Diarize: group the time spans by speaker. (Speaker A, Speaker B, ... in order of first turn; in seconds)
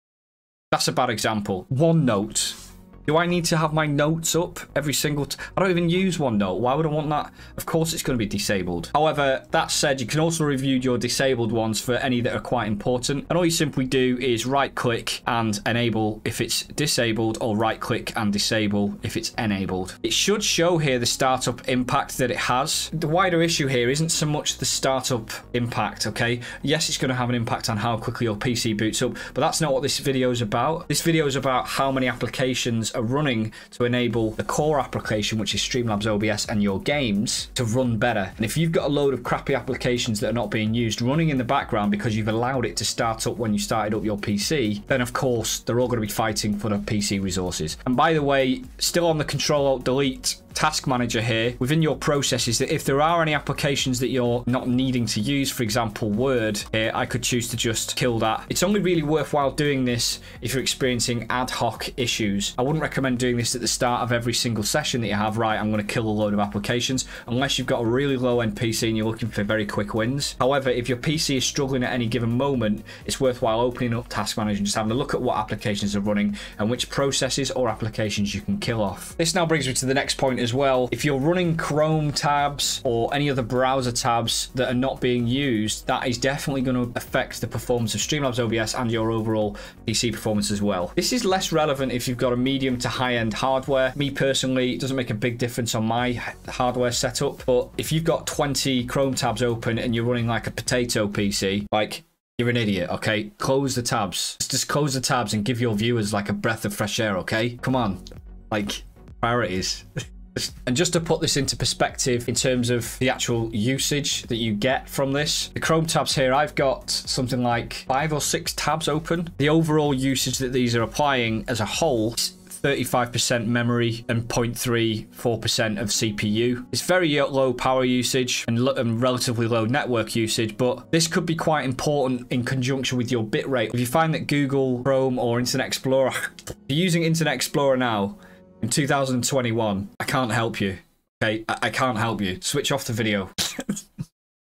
Speaker A: 0.7-143.8